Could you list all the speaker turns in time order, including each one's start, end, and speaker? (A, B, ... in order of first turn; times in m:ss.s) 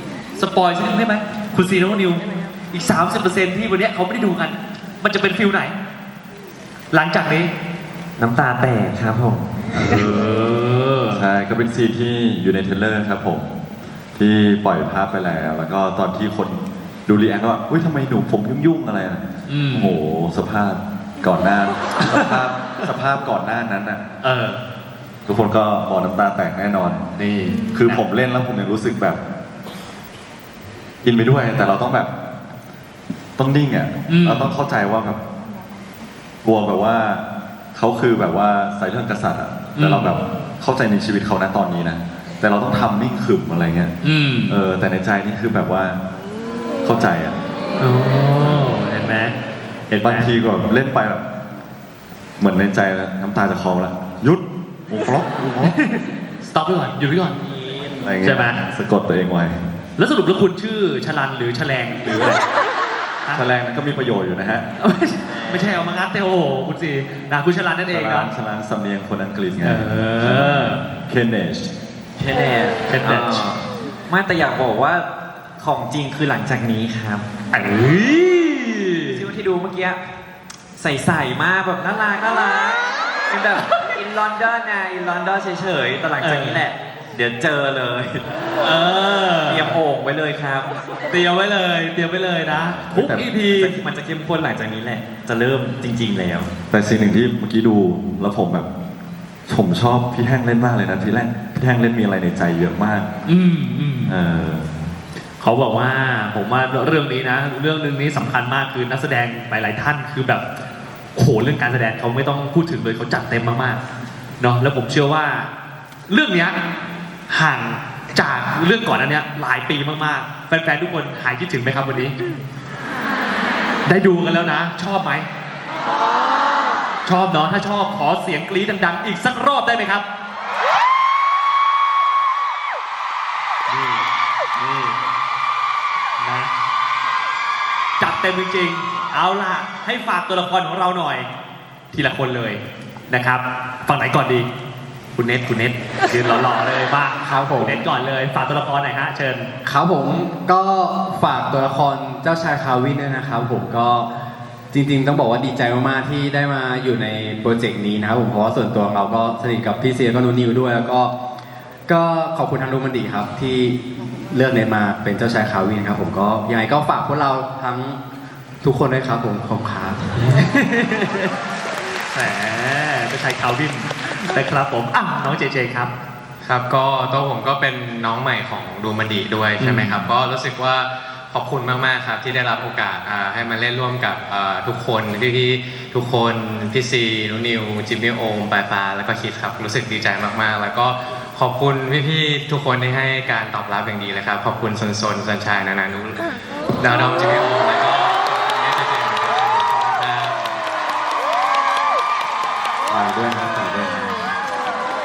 0:00.4-0:05.7 A
0:06.9-0:07.5 A
0:08.2-0:09.5 B
0:09.7-0:11.2 A
0:11.1-0:13.6 C
0:14.2-0:24.1 C
0:19.5-0:20.0 A
0:22.0-0:22.3 A
0:24.2-0:24.6 A
0:25.3-0:27.0 C
0:27.2-0:28.0 A
0:27.7-0:29.2 C
0:31.0-0:32.1 C
0:33.4-0:35.2 C
0:34.1-0:34.5 A
0:36.4-0:43.9 C
0:39.8-0:40.2 A
0:44.0-0:44.6 A
0:44.5-0:46.0 C
0:46.8-0:47.4 C
0:47.8-0:49.4 A
0:48.4-0:48.8 C
0:49.9-0:50.3 A
0:50.0-0:51.2 C
0:52.4-0:55.8 C
0:55.6-0:57.4 A
0:58.0-0:59.6 C
0:58.2-0:58.6 A
1:00.0-1:02.4 A
1:03.3-1:04.7 C
1:04.8-1:08.3 A
1:07.9-1:11.7 C
1:09.6-1:10.8 A
1:12.2-1:15.1 B
1:12.9-1:13.4 A
1:15.6-1:17.2 B
1:17.5-1:19.2 A
1:19.1-1:20.0 B
1:20.8-1:28.3 B
1:26.2-1:26.6 A
1:28.6-1:29.8 A
1:29.5-1:30.7 B
1:31.1-1:33.7 A
1:32.5-1:33.2 C
1:33.3-1:36.5 B
1:36.7-1:38.7 C
1:39.5-1:43.1 C
1:43.3-1:44.2 A
1:44.1-1:44.7 C
1:45.4-1:50.4 A
1:51.2-1:53.8 A
1:54.4-1:55.5 A
1:56.1-1:56.6 A
1:57.3-2:02.2 A
2:03.9-2:05.3 A
2:07.0-2:10.0 A
2:13.7-2:15.0 A
2:16.2-2:16.5 A
2:18.0-2:21.3 A
2:21.9-2:24.5 A
2:25.2-2:29.5 A
2:27.2-2:27.8 D
2:29.6-2:34.1 D
2:34.7-2:41.2 D
2:41.9-2:43.8 D
2:44.3-2:48.0 D
2:48.6-2:50.1 D
2:50.2-2:51.3 A
2:52.1-2:55.9 A
2:56.4-3:16.2 E
2:59.6-3:00.1 A
3:16.8-3:20.6 E
3:22.9-3:24.1 C